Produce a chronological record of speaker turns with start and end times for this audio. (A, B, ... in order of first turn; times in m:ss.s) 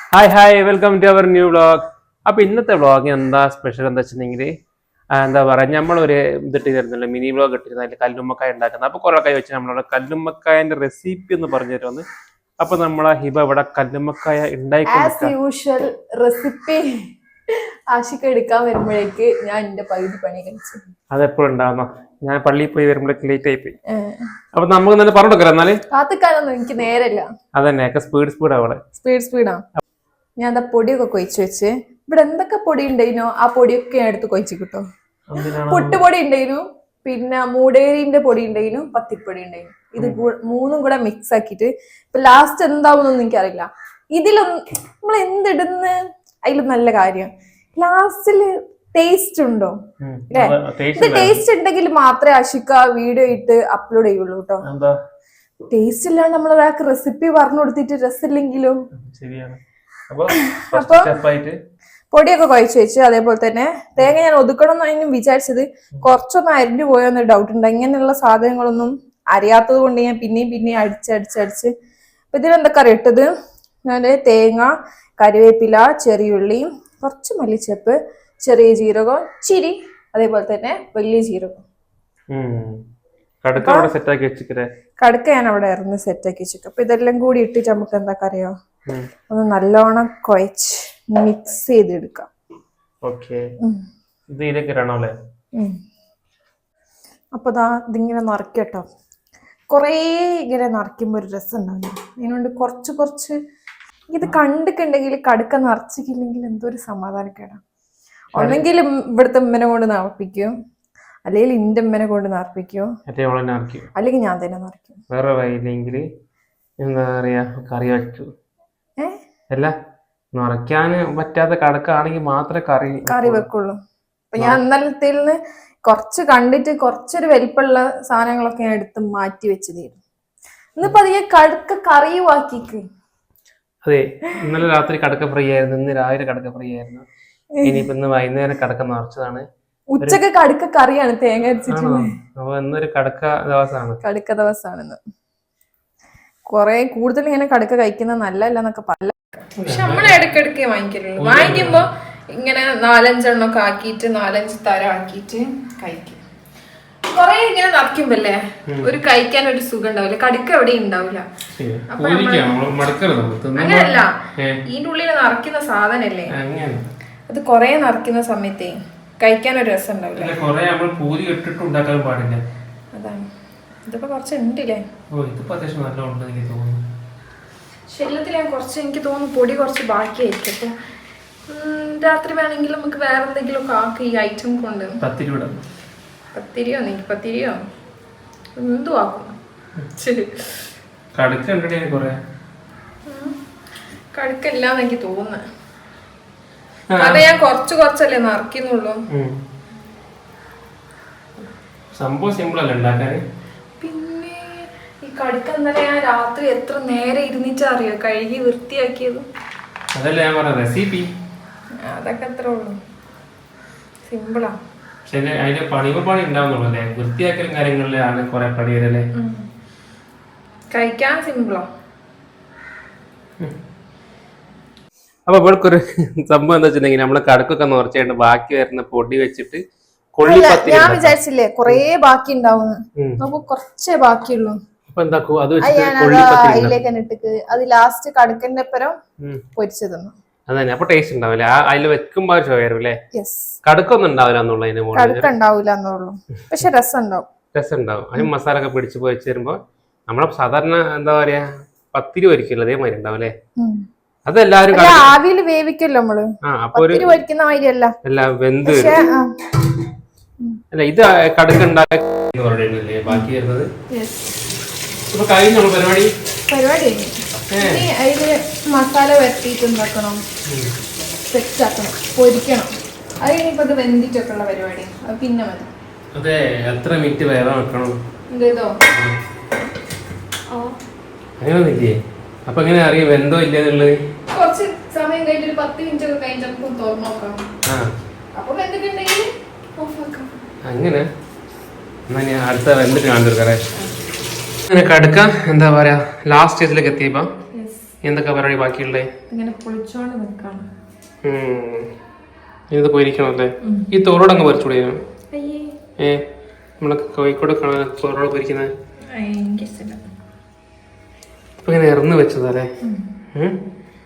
0:00.1-0:04.5 A
0:05.2-0:12.0 A
0:12.6-0:15.3 A
0:14.8-0:16.9 B
0:17.5-0:20.8 B
0:21.1-0:23.7 A
0:23.9-0:24.2 B
0:24.5-0:25.8 A
0:25.9-0:27.3 B
0:27.6-0:28.8 A
0:29.0-0:29.6 B
0:30.4-0:34.8 B
0:35.3-0:36.0 A
0:35.4-0:49.7 B
0:50.0-0:51.4 A
0:50.3-0:54.6 B
0:54.6-0:55.0 A
0:55.7-0:58.8 B
0:59.0-1:01.6 A
1:00.4-1:01.1 B
1:02.1-1:11.7 B
1:12.3-1:13.3 B
1:13.9-1:21.5 B
1:22.3-1:22.8 A
1:23.4-1:24.7 A
1:23.6-1:23.9 B
1:25.0-1:28.5 B
1:29.3-1:32.3 B
1:33.0-1:33.4 A
1:34.3-1:35.1 A
1:37.3-1:38.9 B
1:39.7-1:43.4 B
1:44.1-1:47.6 B
1:48.3-1:50.5 B
1:48.3-1:48.6 A
1:51.2-1:52.9 B
1:53.1-1:53.9 A
1:54.0-1:55.0 B
1:55.1-1:56.0 A
1:56.8-1:58.3 A
2:00.3-2:03.4 A
2:03.0-2:03.8 B
2:04.3-2:10.0 B
2:10.8-2:12.8 B
2:13.8-2:17.0 A
2:17.6-2:17.8 B
2:17.6-2:19.4 A
2:19.9-2:22.1 B
2:21.7-2:24.0 A
2:24.0-2:25.0 B
2:26.5-2:36.2 B
2:29.6-2:30.1 A
2:31.2-2:31.8 A
2:37.1-2:41.2 B
2:38.7-2:38.9 A
2:41.5-2:44.6 A
2:41.9-2:42.5 B
2:43.6-2:44.1 B
2:44.6-2:46.3 B
2:46.3-2:46.9 A
2:47.3-2:50.3 B
2:50.2-2:52.4 A
2:52.9-2:53.2 B
2:53.8-2:54.8 B
2:55.1-2:56.8 A
2:57.9-3:00.7 B
3:01.5-3:05.0 B
3:05.0-3:05.6 A
3:06.3-3:07.6 B
3:08.6-3:09.4 B
3:10.0-3:10.7 B
3:11.1-3:12.2 A
3:13.1-3:13.4 B
3:14.1-3:15.4 B
3:16.9-3:17.2 A
3:17.0-3:19.0 B
3:19.1-3:19.4 A
3:21.9-3:23.2 A
3:23.8-3:29.2 B
3:29.9-3:31.1 A
3:31.8-3:32.8 B
3:34.1-3:34.5 B
3:35.1-3:39.1 A
3:39.2-3:39.4 B
3:40.7-3:41.6 B
3:45.3-3:49.6 A
3:50.2-3:51.1 A
3:50.2-3:54.6 B
3:54.9-3:56.8 A
3:55.6-3:58.9 B
3:59.6-4:00.1 B
4:00.5-4:03.0 A
4:03.1-4:03.5 B
4:03.6-4:05.3 A
4:04.9-4:07.3 B
4:07.5-4:13.3 A
4:13.6-4:13.8 B
4:14.3-4:15.1 A
4:14.7-4:17.9 B
4:16.4-4:17.1 A
4:18.0-4:19.0 A
4:18.6-4:19.3 B
4:20.7-4:23.7 A
4:23.9-4:24.3 B
4:25.1-4:26.1 A
4:26.5-4:30.2 B
4:27.5-4:27.8 A
4:30.5-4:30.7 A
4:31.3-4:32.7 B
4:33.2-4:35.7 B
4:36.2-4:38.0 A
4:38.3-4:38.8 B
4:38.9-4:39.2 A
4:41.4-4:41.9 A
4:42.5-4:44.0 A
4:44.3-4:47.4 B
4:48.3-4:50.4 B
4:50.6-4:51.0 A
4:52.1-4:53.7 A
4:54.7-4:57.3 A
4:57.5-4:57.8 B
4:58.0-4:59.1 A
4:59.3-5:00.6 B
5:01.2-5:01.9 A
5:02.7-5:05.0 A
5:05.3-5:05.8 B
5:06.8-5:08.7 A
5:09.1-5:10.0 B
5:11.6-5:12.7 A